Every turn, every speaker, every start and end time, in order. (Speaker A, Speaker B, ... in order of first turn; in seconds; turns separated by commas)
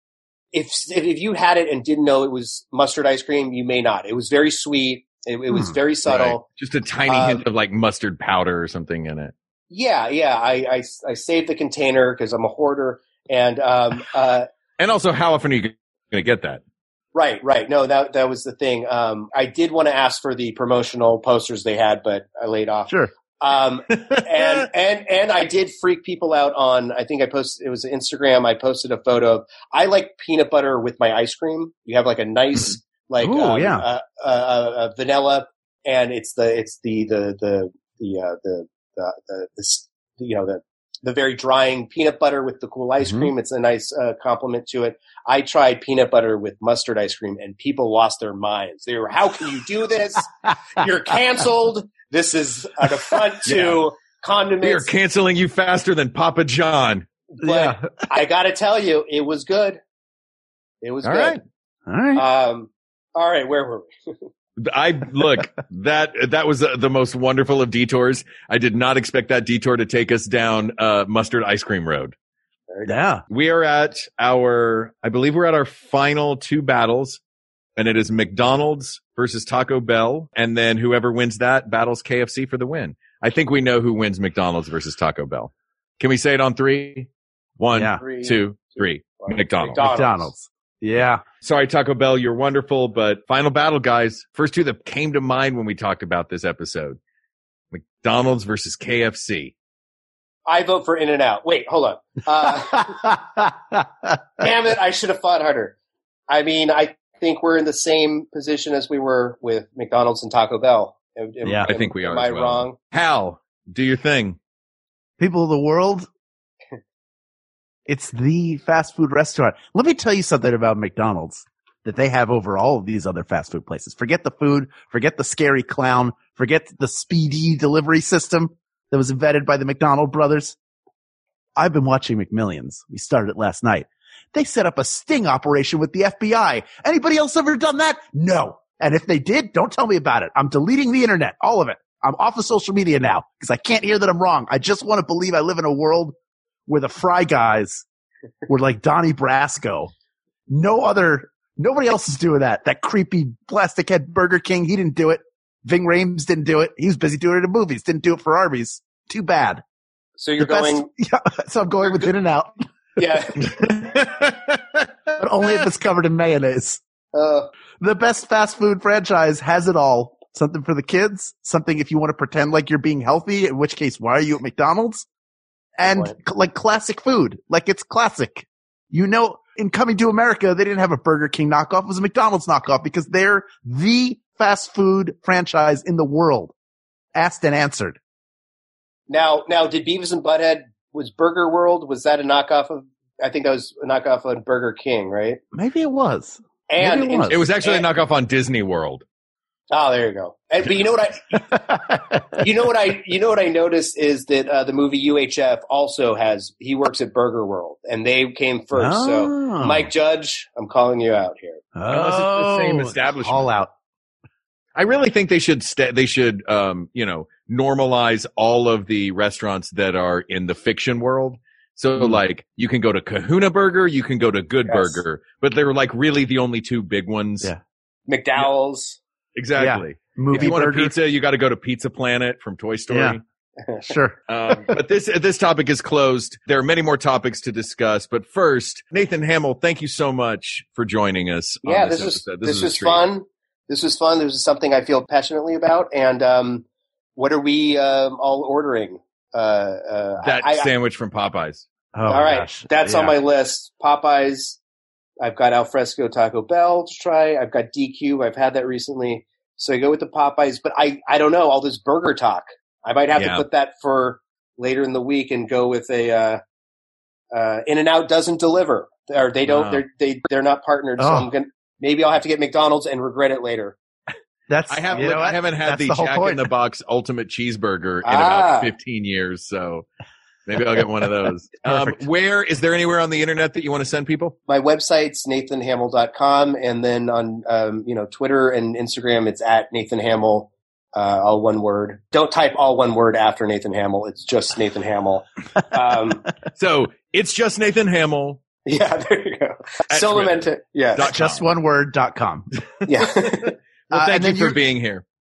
Speaker A: 0.5-6.4, Speaker B: 6.0-9.3, Speaker A: 7.1-7.4, Speaker A: 9.7-14.5, Speaker B: 14.8-16.6, Speaker A: 17.1-54.9, Speaker B: 24.0-24.6, Speaker C: 33.2-33.9, Speaker C: 43.0-43.3, Speaker B: 53.5-53.8, Speaker B: 54.6-57.1, Speaker A: 57.4-59.8, Speaker C: 57.4-57.9, Speaker A: 60.8-61.4, Speaker B: 61.0-61.4, Speaker C: 61.9-62.2, Speaker A: 62.1-63.9, Speaker B: 64.6-72.1, Speaker C: 72.8-73.2, Speaker B: 73.3-77.2, Speaker B: 77.8-87.1, Speaker B: 87.6-89.8, Speaker C: 87.7-88.0, Speaker A: 87.9-90.3, Speaker C: 89.8-91.2, Speaker B: 91.4-97.0, Speaker B: 97.7-99.5, Speaker A: 100.5-103.1, Speaker C: 102.8-103.8, Speaker A: 104.4-105.7, Speaker A: 106.3-112.8, Speaker C: 111.4-111.7, Speaker B: 111.7-114.4, Speaker C: 115.2-116.1, Speaker C: 117.9-130.6, Speaker C: 131.6-146.1, Speaker C: 146.7-147.8, Speaker C: 148.5-149.9, Speaker C: 150.5-159.6, Speaker A: 160.2-160.9, Speaker C: 160.4-162.6, Speaker A: 163.0-163.4, Speaker B: 163.4-164.9, Speaker C: 165.2-166.8, Speaker A: 167.1-167.5, Speaker C: 167.8-175.1, Speaker C: 175.8-186.5, Speaker A: 175.8-176.1, Speaker C: 187.1-188.0, Speaker A: 189.1-195.4, Speaker C: 195.5-197.4, Speaker A: 196.7-197.8, Speaker B: 197.3-199.0, Speaker A: 199.7-201.6, Speaker C: 201.5-202.4, Speaker A: 202.3-211.6, Speaker C: 208.7-209.9, Speaker C: 211.8-213.7, Speaker B: 211.9-213.5, Speaker B: 214.7-227.5, Speaker A: 224.7-225.0, Speaker A: 228.1-229.0, Speaker B: 229.3-233.2, Speaker C: 229.6-230.9, Speaker C: 232.9-233.2, Speaker A: 233.6-234.0, Speaker C: 233.9-234.8, Speaker B: 234.3-243.0, Speaker A: 241.6-246.6, Speaker A: 247.2-250.7, Speaker B: 250.2-251.7, Speaker C: 251.9-253.1, Speaker A: 252.1-254.6, Speaker A: 255.2-266.4, Speaker B: 263.1-263.4, Speaker A: 267.3-273.8, Speaker B: 269.4-269.8, Speaker C: 271.0-271.3, Speaker C: 274.5-276.5, Speaker B: 274.7-279.9, Speaker A: 278.0-278.7, Speaker B: 280.5-284.4, Speaker C: 281.6-282.0, Speaker A: 284.5-296.3, Speaker B: 296.5-298.4, Speaker A: 298.6-301.1, Speaker B: 299.9-301.4, Speaker C: 301.0-302.5, Speaker A: 302.9-303.5, Speaker C: 303.9-304.6, Speaker B: 303.9-305.0